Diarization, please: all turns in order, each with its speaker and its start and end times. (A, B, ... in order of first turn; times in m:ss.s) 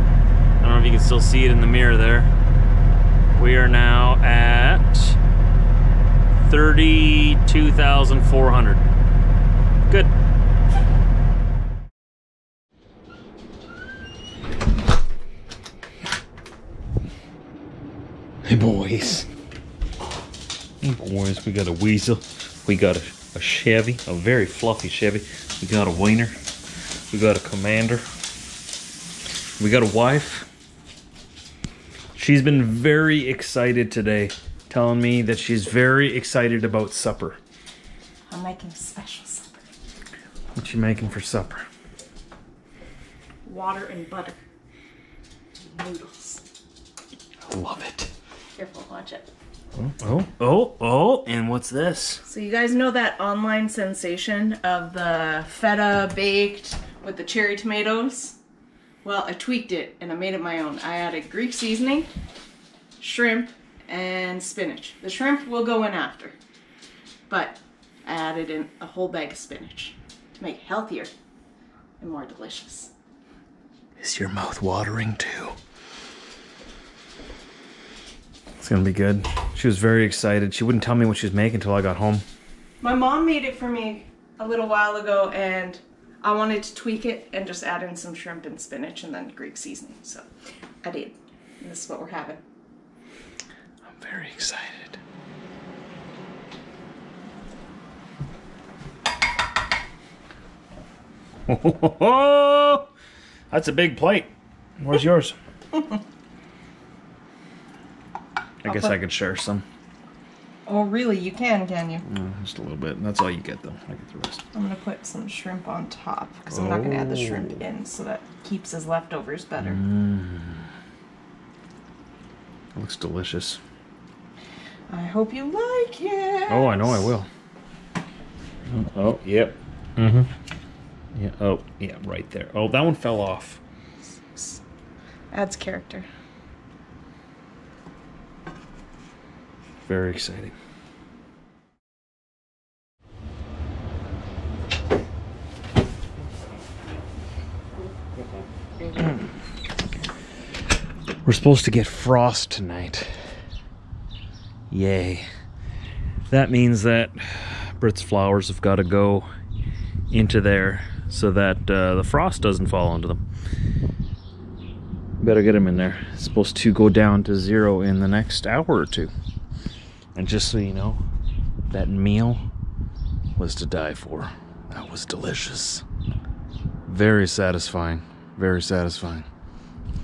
0:00.6-0:02.3 A
0:03.4-0:05.2 A
0:06.4-0:08.8 A
0:18.5-0:19.3 A
0:20.8-0:26.4 A
0:27.1-0:28.0 A
0:29.6-0:30.5 A
0:32.2-0:37.4 A
0:38.3-0:39.7 B
0:40.6-0:41.6 A
0:43.4-0:44.4 B
0:45.7-0:46.4 B
0:47.5-0:48.1 A
0:48.6-0:49.3 B
0:49.8-0:52.2 A
0:52.2-0:58.4 B
0:59.0-1:02.1 B
1:03.0-1:06.4 B
1:07.3-1:11.1 B
1:12.0-1:12.9 B
1:14.0-1:15.6 A
1:18.6-1:22.2 A
1:22.8-1:30.2 B
1:30.8-1:32.4 B
1:33.9-1:35.0 A
1:41.5-1:42.9 A
1:43.5-1:45.4 A
1:48.6-1:49.6 A
1:48.7-1:49.0 B
1:50.7-1:52.0 B
1:52.0-1:54.4 A
1:54.5-1:59.8 B
1:56.5-1:57.6 A
1:59.6-2:00.6 A
2:02.8-2:03.6 A
2:04.9-2:07.1 B
2:06.5-2:07.3 A
2:08.7-2:10.3 A
2:11.2-2:13.6 A
2:14.4-2:14.6 B
2:15.3-2:16.1 B
2:19.8-2:20.5 A
2:31.2-2:33.1 A
2:34.7-2:35.3 A
2:36.3-2:39.3 A
2:40.1-2:43.2 A
2:45.2-2:49.1 A
2:50.2-2:51.0 A
2:51.7-2:52.5 A
2:53.4-2:55.8 A
2:56.9-2:59.3 A